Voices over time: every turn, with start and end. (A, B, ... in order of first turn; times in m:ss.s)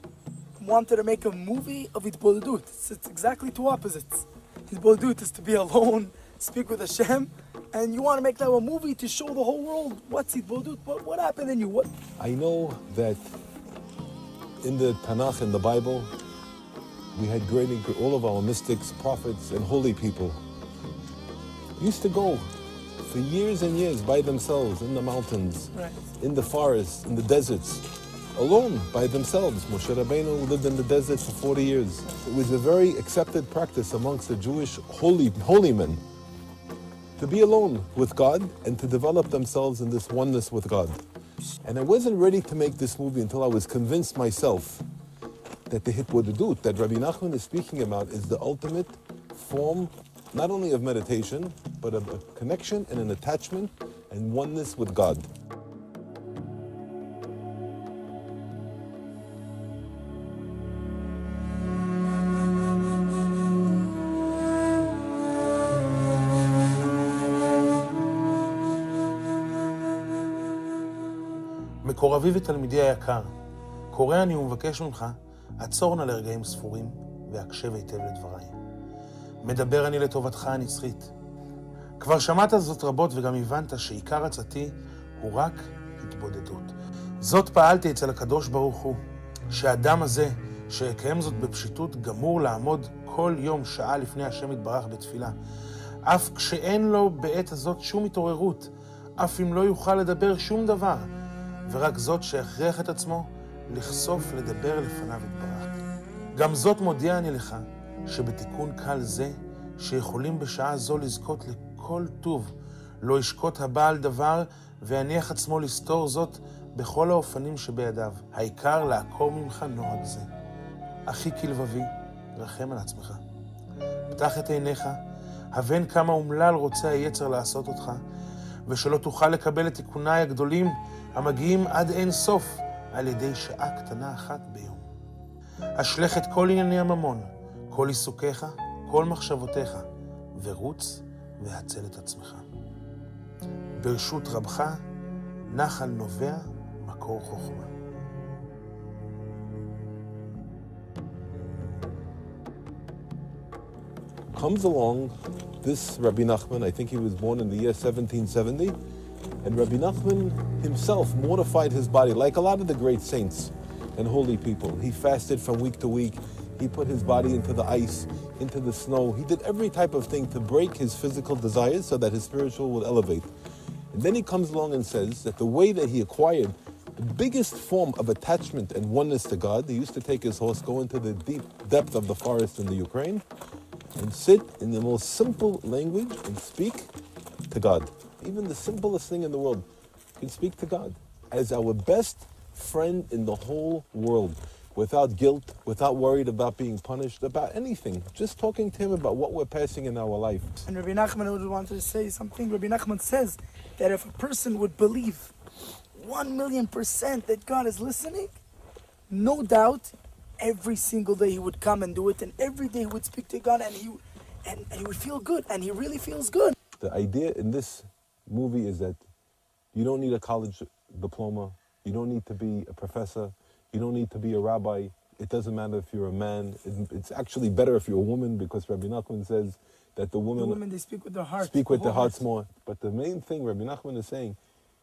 0:00.6-0:11.9 A
0:12.2-0:13.3 B
0:14.6-0:16.1 B
0:17.1-0:20.4 B
0:21.8-0:22.5 B
0:23.0-0:36.0 B
0:25.7-0:26.0 A
0:37.2-0:41.0 B
0:41.6-0:44.8 B
0:45.7-0:55.3 B
1:11.8-1:13.3 C
1:13.9-1:18.5 C
1:19.4-1:21.1 C
1:22.0-1:35.4 C
1:36.0-1:41.1 C
1:41.7-1:45.8 C
1:46.3-2:00.3 C
2:01.0-2:03.2 C
2:04.1-2:05.0 C
2:05.5-2:08.0 C
2:08.7-2:14.8 C
2:15.8-2:22.4 C
2:23.8-2:24.8 C
2:25.5-2:27.7 C
2:34.3-2:38.8 B
2:39.4-2:53.3 B
2:53.9-3:03.2 B
3:04.0-3:06.9 B
3:07.5-3:09.6 B
3:10.2-3:20.6 B
3:20.6-3:25.3 A
3:25.9-3:28.4 A
3:29.1-3:36.5 A
3:36.8-3:39.0 B
3:39.7-3:50.6 B
3:50.4-3:52.2 A
3:51.4-3:54.4 B